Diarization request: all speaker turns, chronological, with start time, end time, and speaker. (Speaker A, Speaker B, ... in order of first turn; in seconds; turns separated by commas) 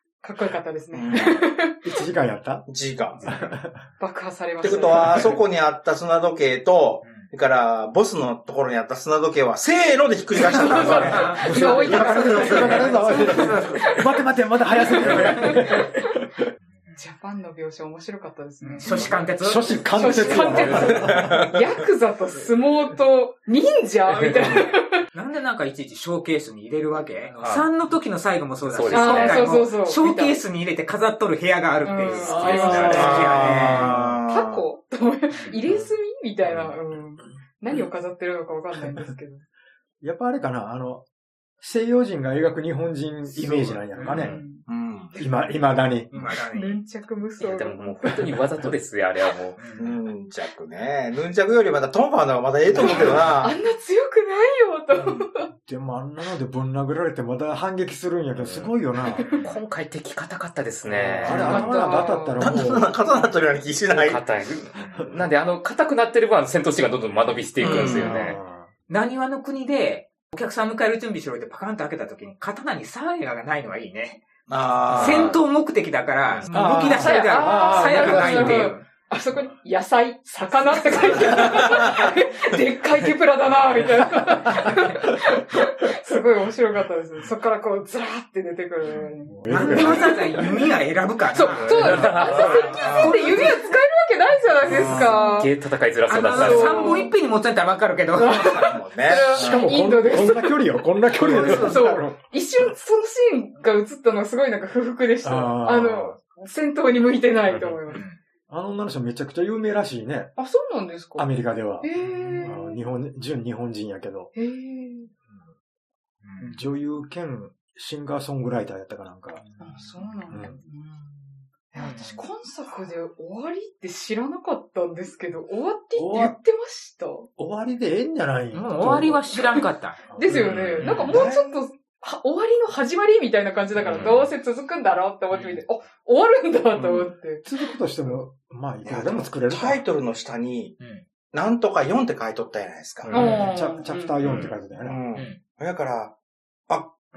Speaker A: 0.2-1.9, Speaker B: 0.9-1.5, Speaker C: 1.8-2.7, Speaker B: 2.7-3.2, Speaker D: 3.1-3.5, Speaker C: 3.2-3.8, Speaker A: 4.0-5.3, Speaker B: 4.6-13.0, Speaker E: 7.0-7.3, Speaker A: 10.3-14.1, Speaker E: 10.7-14.0, Speaker C: 11.3-16.4, Speaker A: 14.7-15.9, Speaker A: 16.9-19.2, Speaker E: 18.6-19.8, Speaker D: 18.8-19.3, Speaker C: 19.4-21.5, Speaker A: 19.9-25.0, Speaker D: 20.5-20.9, Speaker B: 20.8-21.5, Speaker E: 25.1-33.9, Speaker D: 27.4-27.7, Speaker D: 28.7-29.7, Speaker A: 28.9-30.4, Speaker A: 31.8-33.4, Speaker D: 32.1-33.4, Speaker B: 32.6-34.6, Speaker C: 33.7-34.2, Speaker A: 34.3-39.4, Speaker E: 35.3-35.6, Speaker C: 38.7-39.1, Speaker C: 40.0-41.0, Speaker C: 41.6-44.4, Speaker B: 43.3-43.8, Speaker E: 43.9-44.3, Speaker A: 44.1-44.6, Speaker D: 44.1-44.4, Speaker B: 44.6-45.2, Speaker C: 45.2-46.1, Speaker E: 46.1-46.8, Speaker A: 46.4-48.4, Speaker D: 47.4-49.6, Speaker E: 49.6-50.0, Speaker B: 49.8-53.6, Speaker C: 52.7-53.2, Speaker A: 52.7-55.5, Speaker C: 55.5-59.3, Speaker D: 58.3-58.7, Speaker A: 59.2-59.5, Speaker D: 59.4-61.9, Speaker C: 60.8-62.9, Speaker A: 61.3-62.6, Speaker B: 62.4-64.2, Speaker D: 63.9-68.4, Speaker E: 64.7-65.0, Speaker B: 67.6-68.2, Speaker C: 67.6-68.7, Speaker E: 68.9-74.2, Speaker B: 74.5-75.4, Speaker D: 74.9-75.3, Speaker E: 74.9-78.8, Speaker C: 76.5-78.7, Speaker A: 77.0-90.6, Speaker E: 80.8-81.4, Speaker B: 81.4-82.2, Speaker E: 84.6-85.0, Speaker C: 89.3-90.2, Speaker E: 89.5-93.8, Speaker A: 91.3-95.5, Speaker D: 91.5-93.2, Speaker B: 92.8-93.4, Speaker B: 94.6-95.1, Speaker D: 94.6-97.1, Speaker E: 94.7-95.0, Speaker E: 96.1-98.8, Speaker A: 96.3-97.1, Speaker A: 98.2-108.0, Speaker B: 98.5-99.7, Speaker C: 99.1-102.2, Speaker E: 101.1-101.9, Speaker C: 105.2-106.2, Speaker D: 107.5-107.7, Speaker E: 107.9-108.2, Speaker C: 108.5-110.3, Speaker A: 110.3-111.3, Speaker C: 111.2-111.9, Speaker A: 111.8-112.8, Speaker E: 112.0-112.5, Speaker C: 112.4-114.3, Speaker A: 114.3-115.1, Speaker E: 116.2-116.6, Speaker C: 116.4-119.4, Speaker E: 119.4-120.5, Speaker A: 119.6-127.3, Speaker E: 121.7-122.2, Speaker C: 126.0-126.4, Speaker C: 127.3-129.2, Speaker E: 128.5-131.2, Speaker C: 130.1-130.5, Speaker A: 130.1-137.5, Speaker D: 130.3-130.9, Speaker B: 131.1-131.4, Speaker D: 133.8-134.3, Speaker E: 135.3-135.6, Speaker C: 137.4-139.8, Speaker B: 138.8-140.8, Speaker E: 140.8-141.0, Speaker B: 141.3-143.1, Speaker D: 143.0-143.5, Speaker A: 143.1-144.2, Speaker C: 143.1-145.0, Speaker B: 144.2-146.1, Speaker E: 145.1-145.4, Speaker B: 146.7-146.9